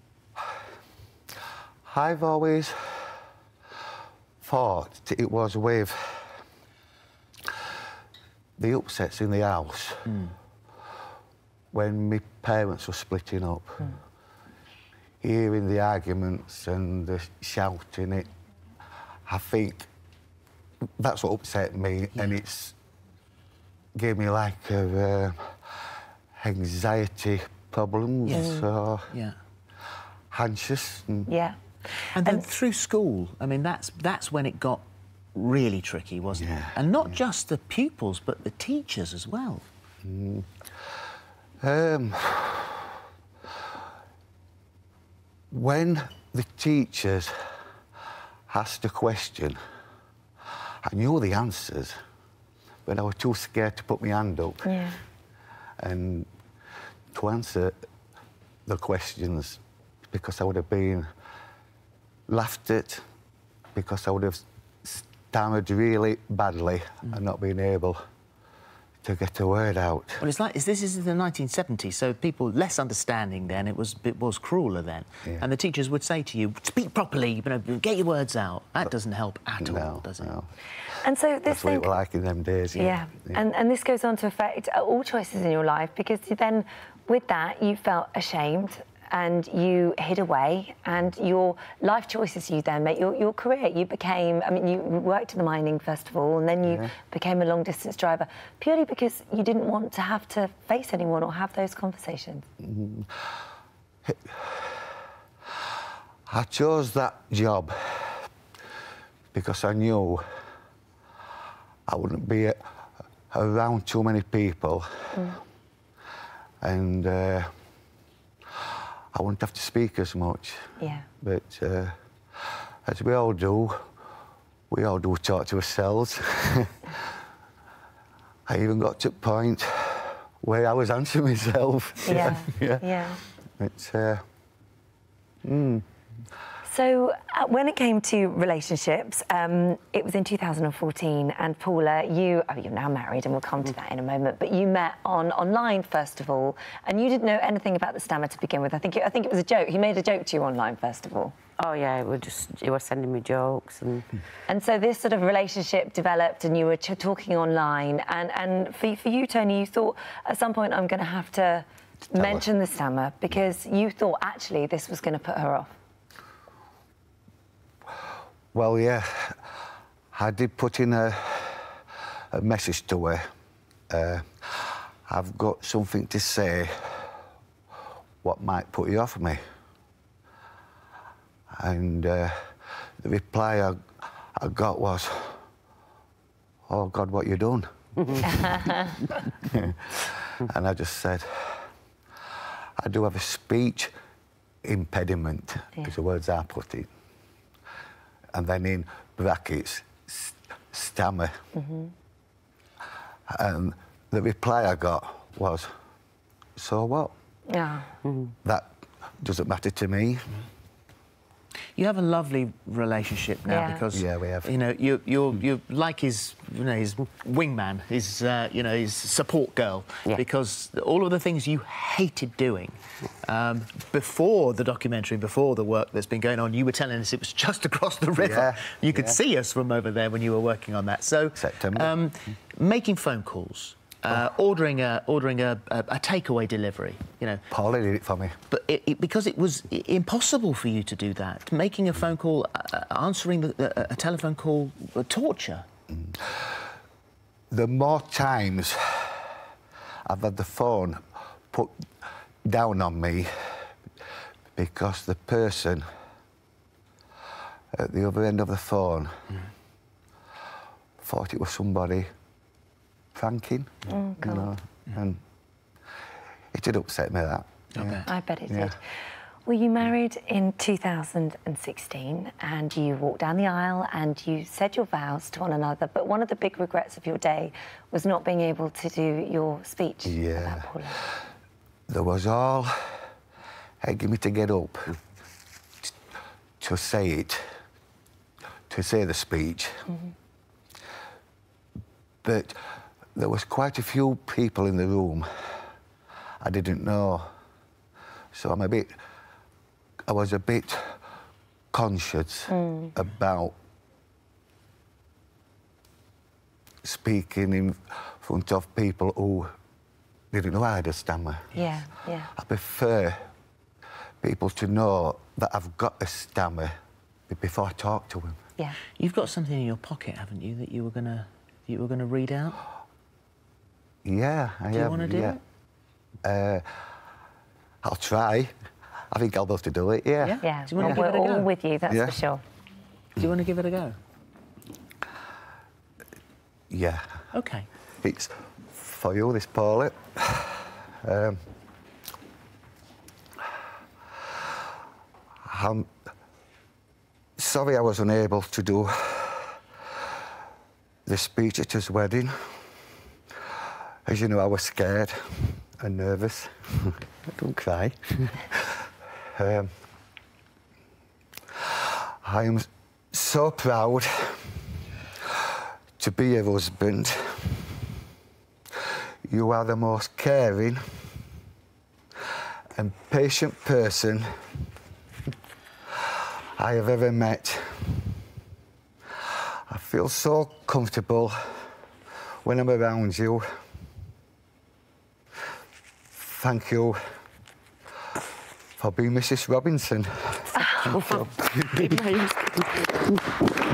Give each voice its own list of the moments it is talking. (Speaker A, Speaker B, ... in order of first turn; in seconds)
Speaker A: 1.9-3.1, 4.4-6.3, 8.6-10.1, 11.7-14.0, 15.2-18.3, 19.3-19.9, 21.0-22.8, 23.9-25.6, 26.4-29.1, 30.3-31.3, 36.4-36.8, 40.0-40.5, 41.6-42.9, 45.5-47.4, 48.5-49.6, 50.8-52.0, 52.9-54.8, 55.8-56.3, 57.1-57.8, 58.7-61.1, 62.3-63.0, 63.8-68.0, 69.0-70.2, 79.6-80.5, 81.5-83.4, 96.7-96.9, 102.6-103.1, 104.0-104.7, 106.3-108.3, 109.3-110.3, 111.9-112.6, 113.3-115.2, 116.6-117.5, 119.1-122.0, 122.9-123.8, 124.7-126.9, 128.5-133.0, 133.6-134.2, 135.4-135.8, 162.2-162.5, 168.5-169.4, 170.1-173.2, 173.9-177.2, 178.2-179.4, 181.5-183.8, 184.4-185.4, 186.7-188.6, 189.4-191.7, 192.8-193.9, 194.6-196.9, 198.3-201.4, 203.3-205.7, 206.6-207.1, 209.2-210.4, 213.9-214.5, 228.2-229.2, 231.4-232.0, 237.5-238.3, 245.9-246.4, 247.5-249.3, 250.1-251.8, 252.4-253.6, 254.6-255.9, 257.7-259.1, 261.0-262.1, 263.1-265.2, 266.5-268.8, 280.1-280.7, 281.9-283.0, 283.8-285.0, 286.6-287.6, 288.7-289.9, 292.2-292.6, 293.1-295.3, 296.4-297.3, 298.3-299.0, 300.1-301.0, 301.7-303.5, 306.8-309.5, 310.3-311.6, 312.4-313.3, 314.2-316.8, 317.3-318.4, 324.0-325.4, 326.2-326.7, 327.8-328.5, 329.1-331.0, 331.9-332.2, 336.7-337.2, 338.0-341.4, 345.4-345.9, 347.4-349.6, 351.1-352.6, 354.1-359.7, 362.2-364.6, 366.0-367.8, 369.2-370.9, 372.8-374.3, 376.6-378.1, 379.7-381.7, 382.4-383.5, 386.1-387.0, 388.8-392.1
Speaker B: 10.1-10.3, 22.1-22.4, 28.3-29.4, 32.1-39.7, 70.2-80.4, 211.8-237.4, 238.5-245.7, 267.7-268.1, 319.0-322.6, 324.7-325.4, 330.2-331.5, 333.2-334.0, 337.3-337.7
Speaker C: 28.3-28.7, 31.3-31.6, 54.6-55.0, 81.0-81.9, 82.8-102.5, 120.8-121.0, 132.1-133.2, 136.6-151.4, 154.5-165.7, 188.2-189.0, 201.6-201.9, 207.5-208.0, 213.5-213.8, 263.9-264.5, 268.1-268.8, 269.5-281.0, 302.5-302.9, 311.6-312.3, 330.4-332.4, 390.6-391.0
Speaker D: 151.6-154.1, 390.8-393.1